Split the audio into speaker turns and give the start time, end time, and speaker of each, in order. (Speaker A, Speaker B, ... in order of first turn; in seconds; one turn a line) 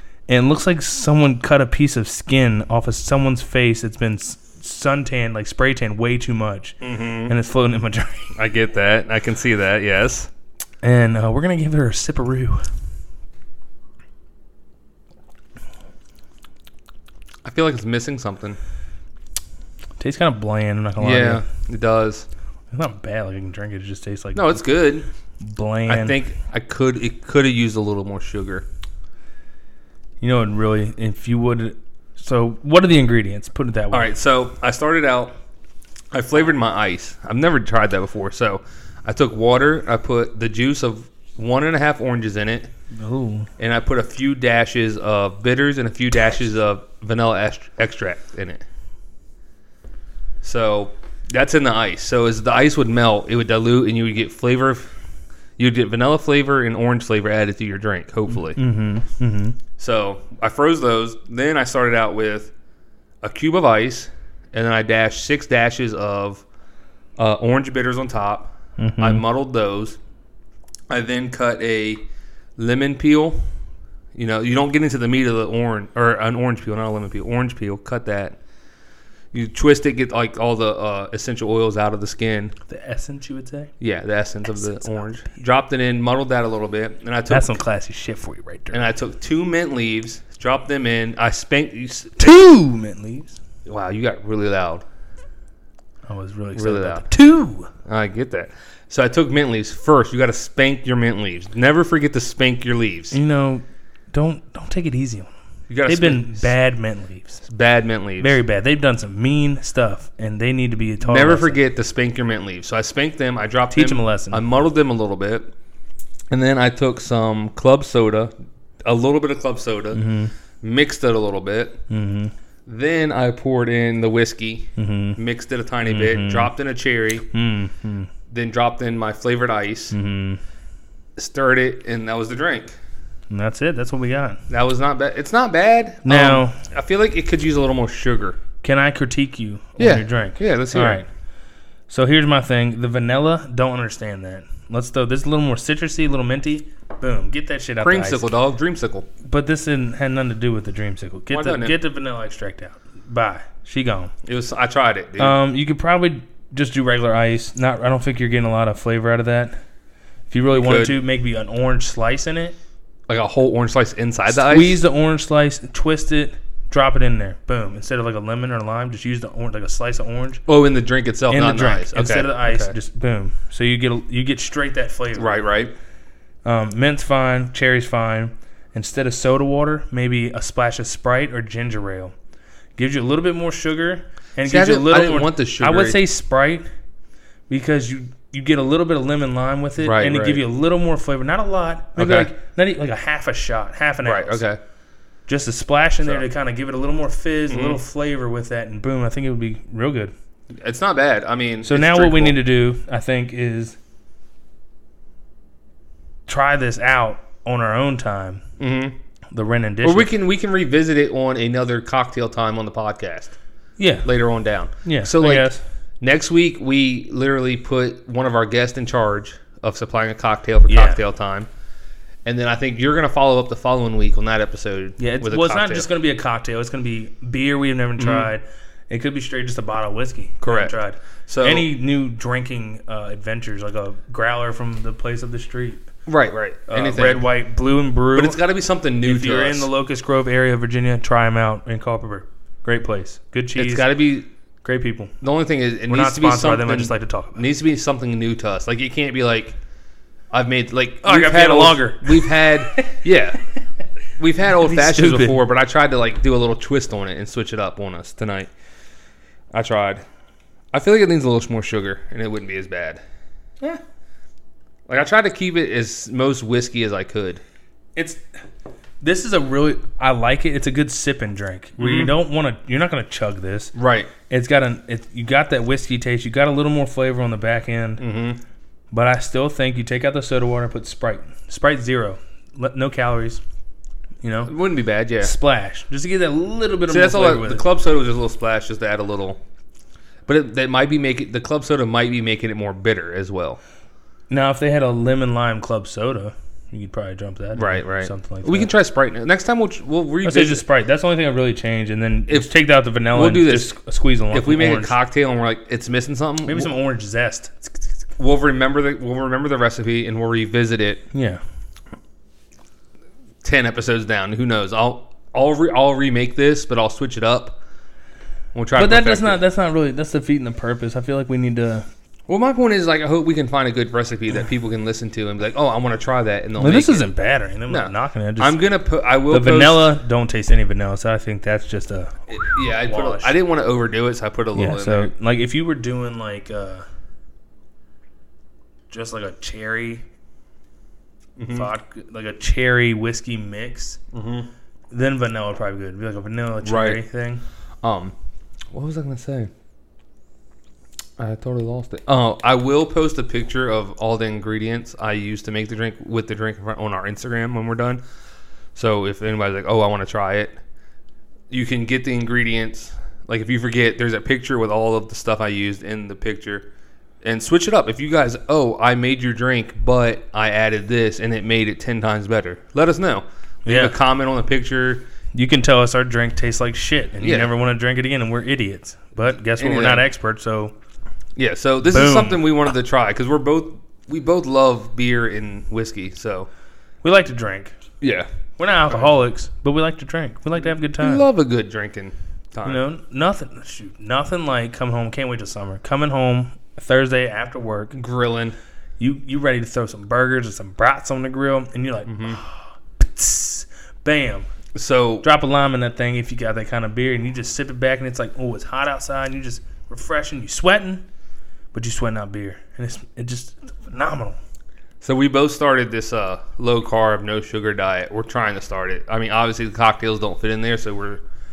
Speaker A: 0.3-8.3
Speaker B: 6.8-7.3
Speaker B: 8.3-10.3
Speaker A: 10.8-12.7
Speaker B: 17.4-18.6
Speaker A: 20.0-21.4
Speaker B: 21.0-22.3
Speaker A: 22.7-24.6
Speaker B: 24.4-25.1
Speaker A: 25.4-26.2
Speaker B: 25.9-28.7
Speaker A: 30.2-34.1
Speaker B: 33.9-35.3
Speaker B: 36.1-42.7
Speaker A: 42.9-43.5
Speaker B: 43.6-48.6
Speaker B: 50.4-54.9
Speaker B: 55.6-58.6
Speaker A: 58.5-59.6
Speaker B: 59.8-62.5
Speaker B: 63.2-66.4
Speaker B: 67.2-70.0
Speaker A: 68.8-69.2
Speaker B: 70.9-72.0
Speaker B: 72.6-73.5
Speaker B: 74.2-78.4
Speaker B: 79.3-82.5
Speaker A: 82.7-83.7
Speaker B: 83.8-87.6
Speaker A: 84.5-85.1
Speaker A: 87.3-88.9
Speaker B: 88.7-92.3
Speaker A: 92.2-93.4
Speaker B: 93.7-94.8
Speaker A: 96.1-97.7
Speaker B: 96.5-97.1
Speaker B: 97.9-103.2
Speaker A: 103.1-105.3
Speaker B: 105.7-106.5
Speaker A: 105.9-107.4
Speaker B: 107.5-108.4
Speaker A: 108.2-111.6
Speaker B: 111.0-115.5
Speaker A: 113.7-114.4
Speaker B: 116.3-118.3
Speaker B: 118.8-120.0
Speaker A: 119.9-120.3
Speaker B: 120.6-121.8
Speaker A: 121.9-122.3
Speaker B: 122.7-127.3
Speaker A: 124.8-125.2
Speaker A: 125.8-126.5
Speaker A: 127.3-128.1
Speaker B: 128.3-130.0
Speaker A: 129.9-130.4
Speaker B: 131.2-132.8
Speaker A: 133.3-134.4
Speaker B: 134.5-138.4
Speaker A: 136.1-136.6
Speaker A: 138.6-141.1
Speaker B: 139.8-141.0
Speaker A: 141.9-148.3
Speaker B: 147.8-149.1
Speaker A: 149.2-154.1
Speaker B: 151.3-151.8
Speaker B: 154.2-155.4
Speaker A: 155.2-159.6
Speaker A: 160.3-162.6
Speaker B: 160.5-160.9
Speaker B: 163.1-164.8
Speaker A: 164.3-170.4
Speaker B: 170.5-172.7
Speaker A: 171.3-175.4
Speaker B: 175.2-175.7
Speaker A: 176.4-182.1
Speaker A: 182.8-186.6
Speaker B: 184.5-186.0
Speaker A: 187.5-194.4
Speaker B: 189.8-190.4
Speaker B: 192.0-192.3
Speaker B: 194.0-194.6
Speaker A: 195.3-200.1
Speaker B: 197.5-197.8
Speaker B: 200.6-202.4
Speaker A: 201.7-203.8
Speaker A: 206.3-208.4
Speaker B: 208.6-209.0
Speaker A: 209.3-210.1
Speaker B: 209.8-213.4
Speaker A: 213.8-214.1
Speaker B: 214.0-221.5
Speaker A: 214.8-215.6
Speaker A: 220.7-221.0
Speaker B: 222.2-225.9
Speaker A: 225.0-235.8
Speaker B: 228.0-228.3
Speaker B: 230.4-230.8
Speaker B: 231.3-231.7
Speaker B: 236.1-237.3
Speaker A: 236.7-238.4
Speaker B: 238.2-239.7
Speaker A: 239.0-243.9
Speaker B: 243.6-244.3
Speaker A: 244.6-245.1
Speaker B: 245.2-249.6
Speaker A: 245.9-247.4
Speaker B: 250.3-253.4
Speaker A: 251.0-252.9
Speaker B: 254.2-258.5
Speaker A: 254.6-255.4
Speaker B: 259.5-260.0
Speaker B: 260.7-263.0
Speaker B: 264.9-267.4
Speaker A: 268.0-268.2
Speaker A: 269.0-273.7
Speaker B: 271.8-272.1
Speaker B: 273.8-274.1
Speaker A: 274.3-278.0
Speaker B: 278.0-278.4
Speaker A: 278.9-283.4
Speaker A: 284.2-284.5
Speaker B: 284.5-285.3
Speaker A: 285.2-287.7
Speaker B: 286.9-289.4
Speaker B: 290.3-293.6
Speaker A: 294.3-298.7
Speaker B: 297.6-300.6
Speaker A: 300.2-304.9
Speaker B: 303.1-303.7
Speaker B: 304.3-306.7
Speaker A: 306.5-308.0
Speaker B: 308.2-311.0
Speaker A: 311.1-311.4
Speaker B: 313.4-317.6
Speaker B: 318.5-319.4
Speaker A: 318.8-321.9
Speaker B: 322.3-327.1
Speaker A: 326.6-328.6
Speaker B: 327.7-329.9
Speaker A: 329.3-333.3
Speaker B: 332.3-335.1
Speaker A: 334.6-336.9
Speaker A: 338.9-340.1
Speaker B: 341.4-341.7
Speaker A: 341.5-344.0
Speaker B: 344.1-344.5
Speaker A: 344.9-347.4
Speaker B: 346.6-347.0
Speaker B: 347.8-348.1
Speaker B: 348.7-349.5
Speaker B: 351.2-358.0
Speaker B: 358.8-360.6
Speaker B: 361.5-366.7
Speaker B: 367.2-375.1
Speaker A: 373.7-373.9
Speaker A: 375.3-380.7
Speaker B: 377.2-377.5
Speaker B: 379.6-380.0
Speaker B: 381.4-386.5
Speaker A: 381.9-382.5
Speaker A: 387.0-387.8
Speaker B: 388.0-388.3
Speaker A: 388.6-391.3
Speaker B: 391.0-392.8
Speaker A: 392.6-398.0
Speaker B: 397.9-398.6
Speaker A: 399.0-404.5
Speaker B: 402.1-402.4
Speaker B: 404.8-405.3
Speaker A: 405.2-411.1
Speaker A: 411.7-414.4
Speaker B: 415.0-421.2